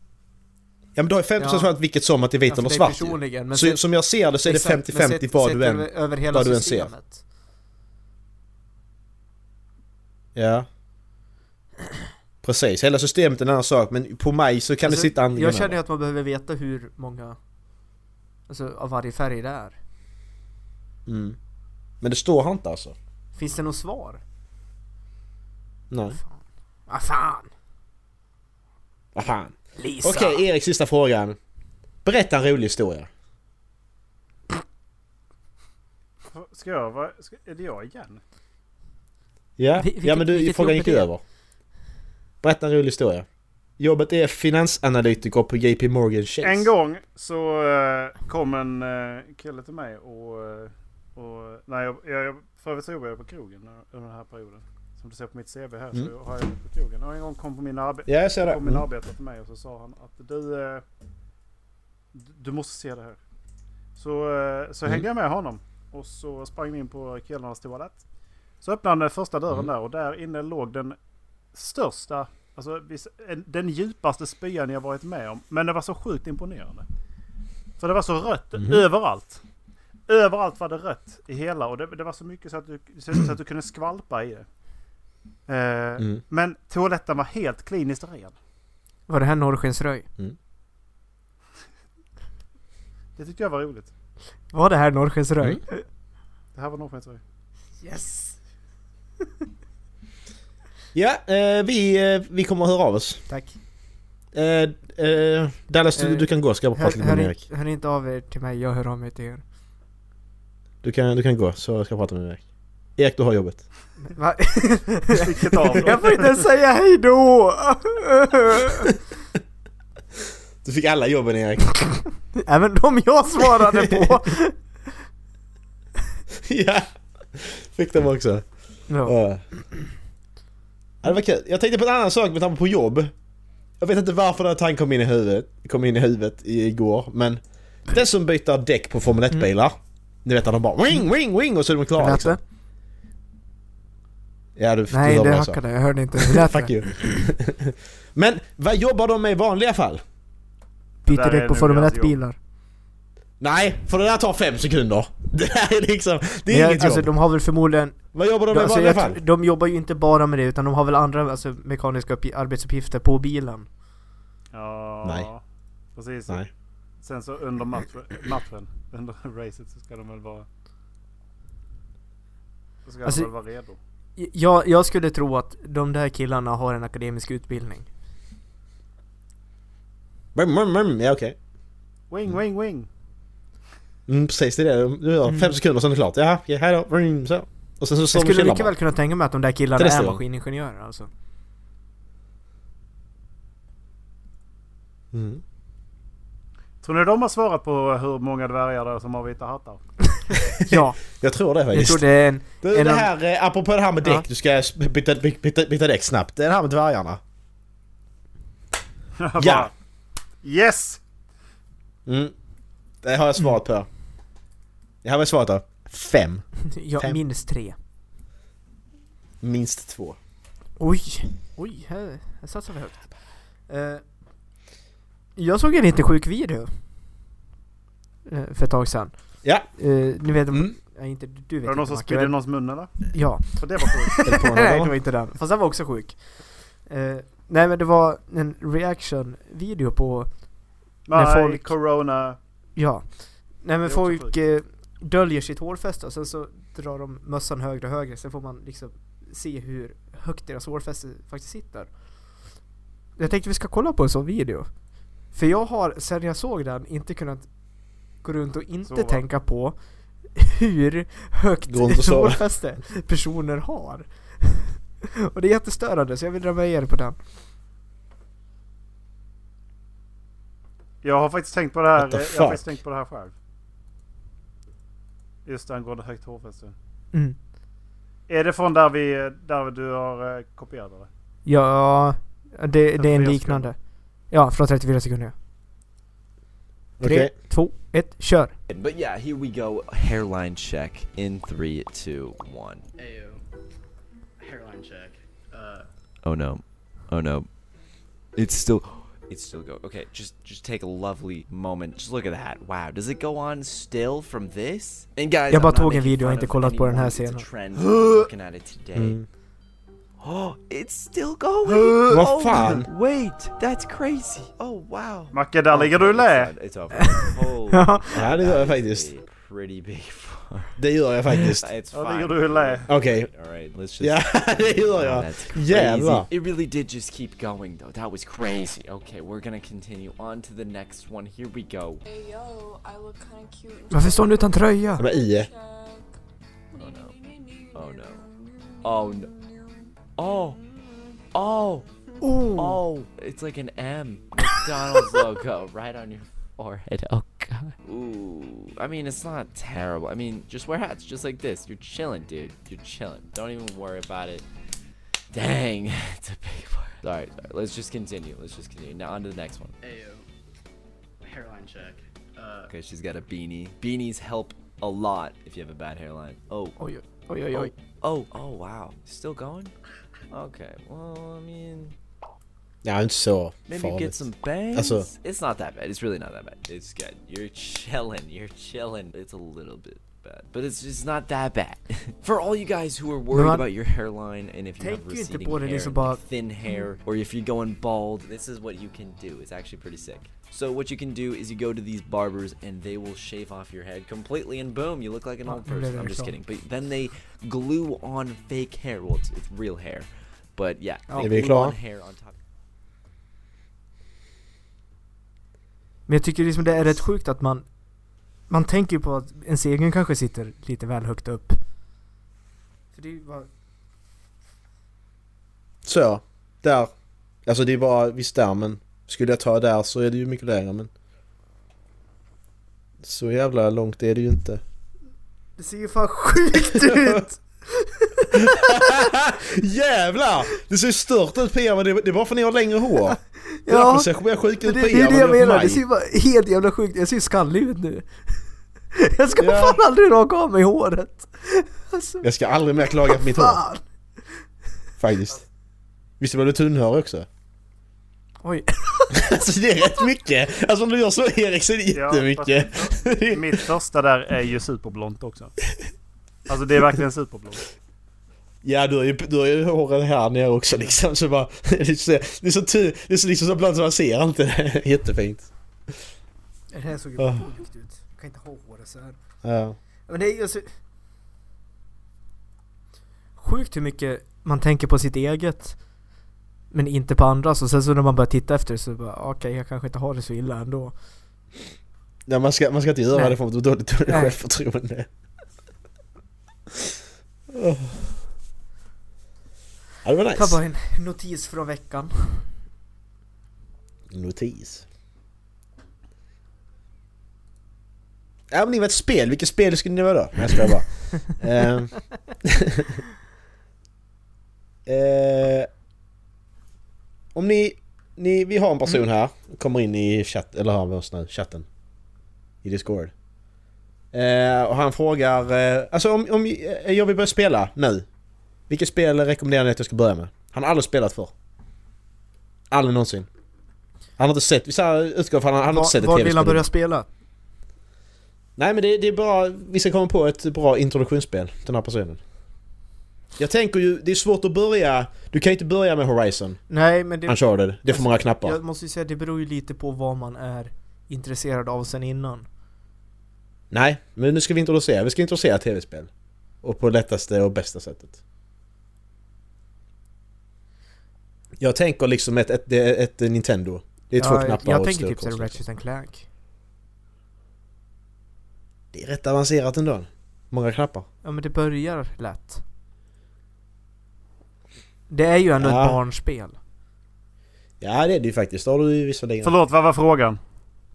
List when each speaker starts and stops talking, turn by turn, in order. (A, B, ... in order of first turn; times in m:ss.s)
0:01.0-0:06.9 A
0:01.4-0:01.7 B
0:02.5-0:03.8 B
0:04.4-0:07.2 B
0:10.3-0:10.7 A
0:12.4-0:15.8 A
0:14.8-0:17.4 B
0:18.5-0:19.8 B
0:21.0-0:21.4 A
0:22.0-0:23.0 A
0:23.4-0:24.2 B
0:25.9-0:26.2 A
0:26.9-0:27.5 B
0:29.1-0:31.4 A
0:29.8-0:30.4 B
0:32.0-0:33.1 A
0:36.3-0:38.2 C
0:39.6-0:41.2 A
0:39.8-0:41.1 B
0:42.4-0:43.2 A
0:43.8-0:46.7 A
0:46.4-1:00.8 C
0:58.1-0:58.8 A
1:02.1-1:03.2 C
1:04.0-1:08.0 C
1:08.6-1:11.0 C
1:11.5-1:16.8 C
1:17.8-1:19.4 C
1:18.6-1:18.8 A
1:20.1-1:24.4 C
1:25.5-1:28.3 C
1:29.1-1:30.1 B
1:33.2-1:33.9 C
1:34.5-1:35.8 B
1:36.5-1:37.2 C
1:37.8-1:38.4 B
1:40.9-1:43.2 A
1:43.3-1:43.6 B
1:44.3-1:47.4 A
1:46.0-1:49.4 B
1:50.8-1:52.4 A
1:53.0-1:53.6 A
1:54.1-1:58.9 B
1:55.1-1:56.4 C
2:00.6-2:02.0 A
2:02.4-2:04.6 B
2:03.4-2:04.2 A
2:06.4-2:08.4 A
2:08.9-2:09.2 B
2:09.0-2:09.4 A
2:11.0-2:13.1 A
2:13.8-2:22.4 A
2:22.0-2:22.4 B
2:24.6-2:25.6 A
2:24.9-2:27.2 B
2:26.2-2:30.0 A
2:31.0-2:32.4 B
2:31.0-2:32.2 C
2:33.4-2:37.1 A
2:36.5-2:43.7 B
2:38.1-2:39.2 A
2:44.5-2:45.4 C
2:45.0-2:45.3 A
2:46.0-2:46.4 C
2:47.0-2:50.5 C
2:52.8-2:53.8 C
2:54.2-2:57.9 B
3:00.3-3:01.4 A
3:02.1-3:02.9 C
3:04.1-3:08.7 A
3:05.3-3:05.6 B
3:08.1-3:11.1 B
3:09.8-3:10.2 A
3:15.1-3:15.4 A
3:16.8-3:19.8 C
3:20.5-3:21.0 B
3:20.6-3:22.0 A
3:21.7-3:23.1 B
3:22.6-3:27.2 A
3:29.2-3:29.7 C
3:29.4-3:29.7 A
3:30.4-3:31.0 C
3:32.0-3:32.3 A
3:33.0-3:33.9 A
3:35.0-3:37.2 A
3:36.7-3:37.8 B
3:39.4-3:40.2 A
3:40.8-3:43.1 B
3:43.7-3:44.0 B
3:45.4-3:46.7 B
3:48.2-3:49.1 B
3:49.8-3:52.3 B
3:50.5-3:50.7 A
3:51.6-3:54.2 C
3:53.1-4:00.4 B
3:54.2-3:54.9 A
4:01.1-4:02.4 C
4:01.1-4:01.7 B
4:02.8-4:11.9 B
4:03.8-4:04.3 C
4:13.2-4:14.7 B
4:15.3-4:17.5 B
4:18.2-4:19.8 B
4:18.9-4:19.2 C
4:20.3-4:27.2 B
4:21.7-4:22.4 A
4:31.0-4:33.3 C
4:32.0-4:32.7 A
4:35.4-4:36.7 C
4:38.3-4:41.1 C
4:41.4-4:43.8 B
4:43.0-4:43.7 C
4:44.3-4:45.3 B
4:47.0-4:47.3 A
4:47.0-4:48.5 B
4:48.7-4:52.8 D
4:53.0-4:53.4 E
4:54.4-4:55.8 E
4:56.2-4:57.5 D
4:58.3-5:09.2 D
5:05.5-5:07.4 B
5:07.8-5:08.3 C
5:08.9-5:09.2 A
5:10.2-5:32.0 D
5:11.7-5:12.0 C
5:12.1-5:12.9 A
5:15.3-5:16.5 C
5:17.0-5:18.1 B
5:18.1-5:19.1 A
5:20.8-5:21.7 A
5:21.9-5:22.9 C
5:22.9-5:23.3 A
5:24.0-5:26.3 A
5:32.0-5:36.1 F
5:33.9-5:35.0 B
5:35.0-5:35.5 A
5:36.7-5:40.0 F
5:36.8-5:37.1 D
5:37.7-5:38.2 D
5:38.8-5:39.3 D
5:40.2-5:40.6 D
5:40.8-5:41.1 F
5:41.3-5:41.9 D
5:42.2-5:42.8 B
5:42.6-5:47.1 D
5:47.8-5:54.4 D
5:55.3-5:59.7 D
5:59.8-6:00.2 E
6:01.2-6:02.7 E
6:02.7-6:06.8 D
6:06.8-6:07.7 B
6:07.5-6:09.7 D
6:10.3-6:12.0 D
6:12.8-6:15.1 A
6:13.7-6:42.4 D
6:23.3-6:23.6 B
6:24.8-6:26.2 B
6:35.5-6:36.3 B
6:41.2-6:41.8 A
6:46.1-6:47.7 B
6:48.5-6:51.6 B
6:52.9-6:53.5 B
6:55.8-6:56.9 A
6:57.4-7:00.9 A
7:03.0-7:04.6 A
7:05.6-7:09.1 B
7:06.5-7:07.2 A
7:08.3-7:15.8 A
7:13.4-7:22.2 B
7:19.4-7:19.8 A
7:22.2-7:23.6 A
7:23.0-7:23.8 B
7:25.0-7:25.4 A
7:26.2-7:27.3 A
7:28.4-7:29.2 B
7:29.1-7:33.6 A
7:31.9-7:35.5 C
7:36.5-7:37.7 C
7:38.6-7:45.9 A
7:46.7-7:49.2 B
7:47.2-7:47.4 A
7:49.4-7:49.8 A
7:50.1-7:50.7 B
7:53.4-7:55.8 B
7:56.7-8:00.9 B
8:02.2-8:05.1 A
8:04.1-8:04.4 B
8:07.5-8:08.1 A
8:10.0-8:10.6 A
8:10.3-8:12.5 B
8:14.1-8:14.8 A
8:18.5-8:23.0 A
8:24.8-8:25.7 A
8:27.3-8:31.6 A
8:32.6-8:33.1 A
8:34.1-8:38.0 A
8:38.7-8:41.3 A
8:42.7-8:43.3 A
8:44.2-8:46.6 A
8:45.7-8:47.1 B
8:48.6-8:52.2 A
8:53.4-8:56.6 A
8:56.7-9:02.4 B
8:57.2-8:58.6 A
9:03.7-9:06.1 A
9:06.6-9:08.2 A
9:11.6-9:15.6 A
9:14.2-9:16.2 B
9:18.9-9:21.0 A
9:21.2-9:22.6 B
9:25.1-9:26.6 B
9:25.6-9:26.0 A
9:27.8-9:29.5 A
9:29.4-9:30.4 C